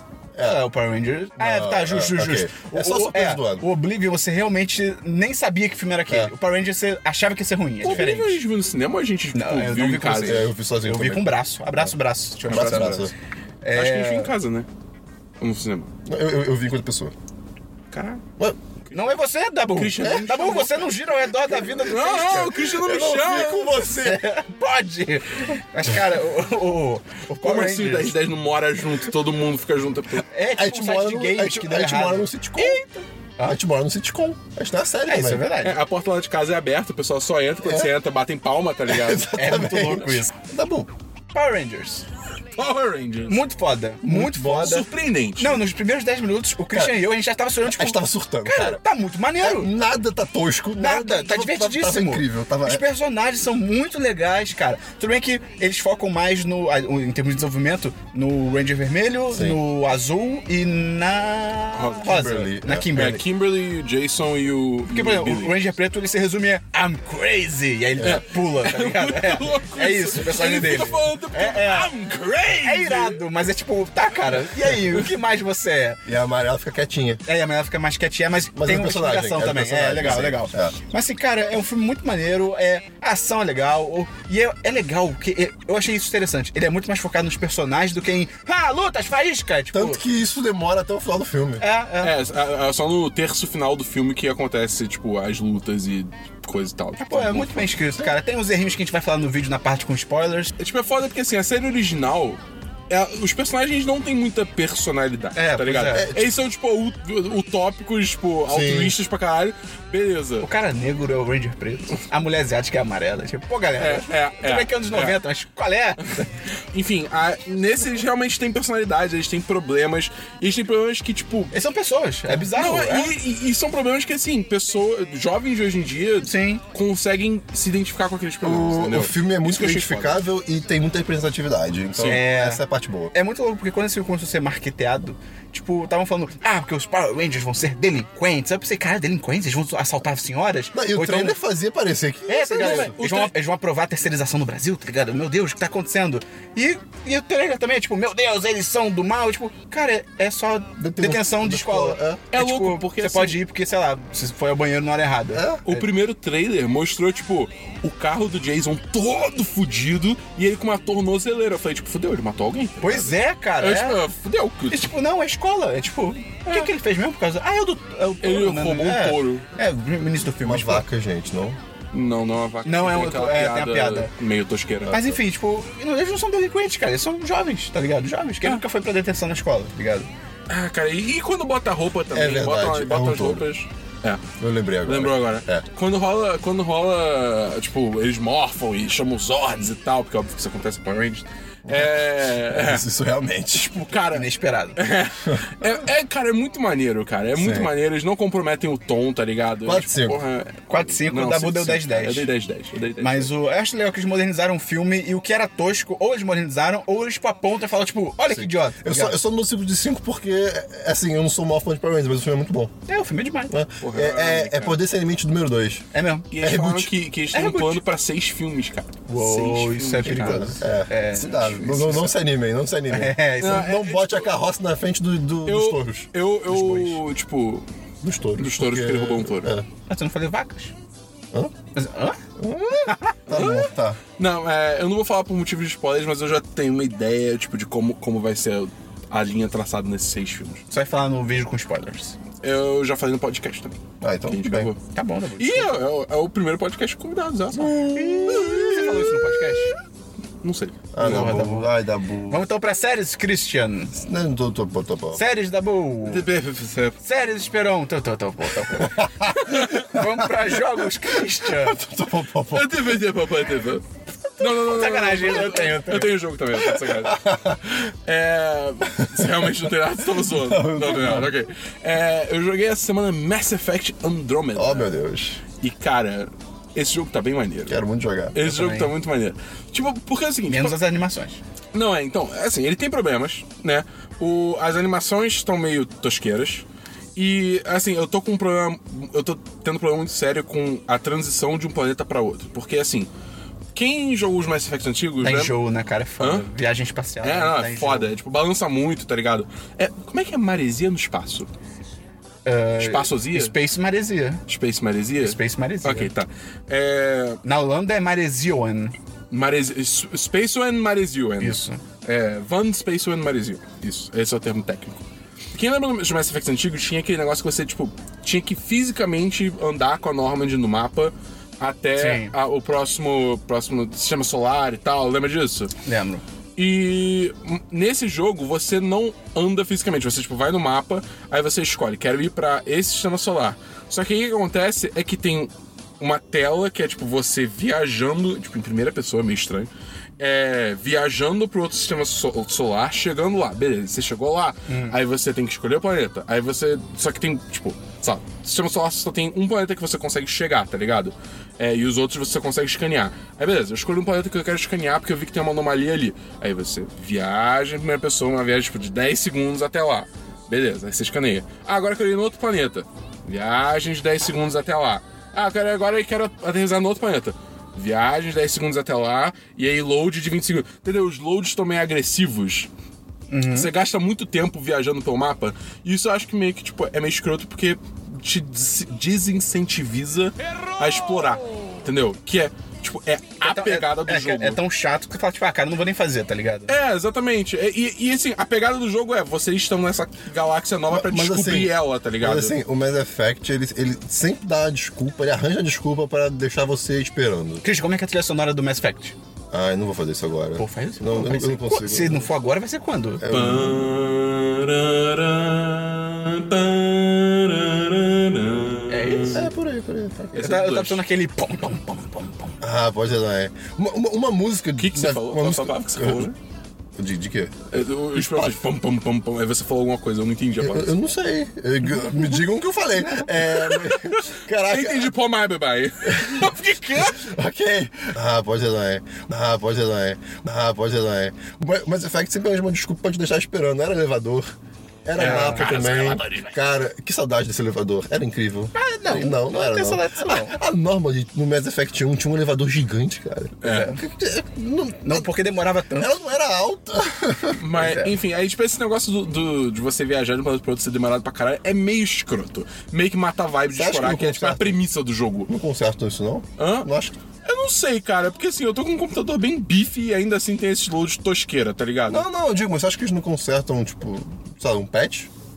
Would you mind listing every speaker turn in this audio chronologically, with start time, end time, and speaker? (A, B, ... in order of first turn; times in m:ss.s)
0:00.4-0:00.6 A
0:00.4-0:08.4 B
0:01.4-0:03.7 A
0:07.8-0:10.5 C
0:09.3-0:13.1 B
0:10.2-0:11.9 A
0:12.5-0:13.1 A
0:12.5-0:13.1 C
0:13.6-0:14.3 B
0:13.8-0:14.7 C
0:15.4-0:15.9 C
0:16.1-0:17.1 A
0:17.9-0:18.2 C
0:18.8-0:19.1 C
0:18.9-0:22.6 B
0:19.8-0:20.9 C
0:21.6-0:23.8 C
0:22.8-0:24.2 A
0:23.9-0:28.1 B
0:27.4-0:30.3 C
0:30.3-0:33.6 B
0:30.5-0:32.8 A
0:33.4-0:35.5 A
0:35.1-0:35.8 B
0:35.6-0:39.3 C
0:37.6-0:37.9 A
0:38.9-0:40.9 A
0:39.3-0:40.3 B
0:41.3-0:42.1 B
0:42.6-0:43.4 C
0:43.3-0:44.9 B
0:44.0-0:44.8 A
0:44.5-0:45.6 C
0:45.4-0:49.7 B
0:47.6-0:48.8 A
0:49.4-0:52.8 A
0:50.8-1:03.2 B
0:59.3-0:59.6 A
1:01.7-1:02.4 C
1:02.0-1:02.9 A
1:02.9-1:05.6 C
1:04.9-1:11.9 B
1:08.0-1:13.2 C
1:12.6-1:16.0 B
1:16.1-1:17.2 A
1:17.3-1:30.0 B
1:18.6-1:20.8 A
1:29.7-1:31.6 A
1:31.6-1:32.1 B
1:32.0-1:37.8 C
1:37.0-1:40.5 B
1:40.6-1:42.4 C
1:42.9-1:50.5 C
1:45.4-1:46.1 B
1:45.9-1:46.3 A
1:48.5-1:49.0 A
1:50.4-1:56.0 B
1:53.8-1:55.2 C
1:56.7-2:01.5 C
2:01.5-2:03.2 B
2:02.4-2:10.2 C
2:06.2-2:06.6 B
2:08.4-2:13.1 A
2:12.0-2:12.2 C
2:12.1-2:21.4 B
2:20.7-2:23.0 A
2:22.3-2:35.9 B
2:22.6-2:23.3 C
2:30.8-2:32.2 A
2:32.3-2:33.4 C
2:35.3-2:35.6 A
2:35.6-2:44.9 C
2:42.8-2:44.0 B
2:44.7-2:50.9 B
2:46.5-2:46.7 C
2:48.2-2:49.4 C
2:50.4-2:51.6 A
2:51.9-2:55.0 C
2:52.6-2:54.1 B
2:54.8-2:55.2 A
2:54.9-3:00.1 B
3:00.5-3:04.2 C
3:02.1-3:03.5 A
3:04.4-3:05.7 A
3:04.8-3:12.8 C
3:11.7-3:13.9 A
3:13.6-3:23.3 C
3:14.1-3:14.8 B
3:17.4-3:17.7 A
3:19.6-3:20.2 A
3:20.7-3:22.3 B
3:23.0-3:29.2 B
3:28.3-3:32.7 A
3:32.9-3:33.5 B
3:33.5-3:35.9 A
3:33.8-3:34.8 C
3:35.9-3:36.3 B
3:36.3-3:40.5 C
3:36.4-3:36.9 A
3:37.3-3:37.8 B
3:39.1-3:42.1 B
3:40.0-3:46.1 A
3:41.5-3:42.0 C
3:42.9-3:43.7 B
3:43.4-3:44.3 C
3:45.5-3:47.7 C
3:46.5-3:47.0 B
3:48.0-3:49.7 A
3:48.4-3:49.6 C
3:49.9-3:50.7 B
3:51.8-3:52.2 B
3:52.4-3:54.0 A
3:52.8-3:53.2 B
3:53.3-4:00.6 C
4:00.7-4:02.2 B
4:02.4-4:04.8 C
4:04.0-4:04.7 A
4:04.9-4:05.8 B
4:05.4-4:07.8 C
4:07.5-4:09.2 A
4:07.9-4:09.8 B
4:08.4-4:08.9 C
4:10.4-4:10.9 C
4:10.9-4:12.4 A
4:11.0-4:11.7 B
4:12.3-4:14.0 B
4:13.9-4:15.2 A
4:15.1-4:16.3 B
4:16.1-4:17.0 C
4:17.0-4:21.8 B
4:18.8-4:20.5 A
4:21.1-4:23.0 A
4:22.5-4:23.8 C
4:24.4-4:26.2 B
4:24.4-4:27.2 C
4:26.6-4:27.8 A
4:27.8-4:34.9 C
4:29.0-4:31.3 A
4:34.6-4:35.4 A
4:35.6-4:37.8 C
4:37.7-4:38.4 A
4:38.3-4:40.8 C
4:38.4-4:38.9 B
4:40.5-4:41.4 B
4:41.7-4:46.6 C
4:47.2-4:53.1 C
4:53.8-4:55.5 C
4:55.2-4:58.1 B
4:56.2-4:56.5 C
4:57.2-5:01.5 C
5:02.5-5:04.4 B
5:02.8-5:03.5 C
5:04.5-5:07.4 C
5:05.2-5:06.1 B
5:07.4-5:08.9 B
5:09.3-5:15.0 C
5:11.4-5:11.8 B
5:15.5-5:25.7 C
5:22.0-5:22.3 B
5:25.8-5:26.2 B
5:26.6-6:12.7 C
5:44.7-5:45.0 B
6:13.3-6:13.7 B
6:13.5-6:24.6 C
6:23.4-6:26.7 B
6:26.7-6:32.6 C
6:30.9-6:37.6 A
6:37.6-6:39.2 B
6:39.5-6:42.3 A
6:40.6-6:43.2 B
6:43.2-6:43.9 A
6:43.3-6:49.4 C
6:48.9-6:49.5 B
6:49.3-6:50.5 A
6:50.3-6:51.0 C
6:50.4-6:52.6 B
6:52.6-6:56.3 A
6:54.8-6:56.3 C
6:57.0-6:57.6 A
6:57.7-7:00.9 C
6:58.1-6:58.6 A
7:00.6-7:05.1 A
7:03.6-7:07.2 C
7:06.1-7:14.5 A
7:15.0-7:25.3 A
7:15.2-7:16.5 C
7:15.2-7:15.8 B
7:18.8-7:20.6 B
7:23.6-7:24.0 C
7:23.6-7:24.0 B
7:25.0-7:26.1 B
7:26.0-7:27.6 A
7:27.6-7:35.5 C
7:27.8-7:28.1 B
7:33.7-7:34.8 A
7:35.5-7:37.2 A
7:36.6-7:36.9 C
7:37.4-7:42.2 C
7:42.1-7:45.3 A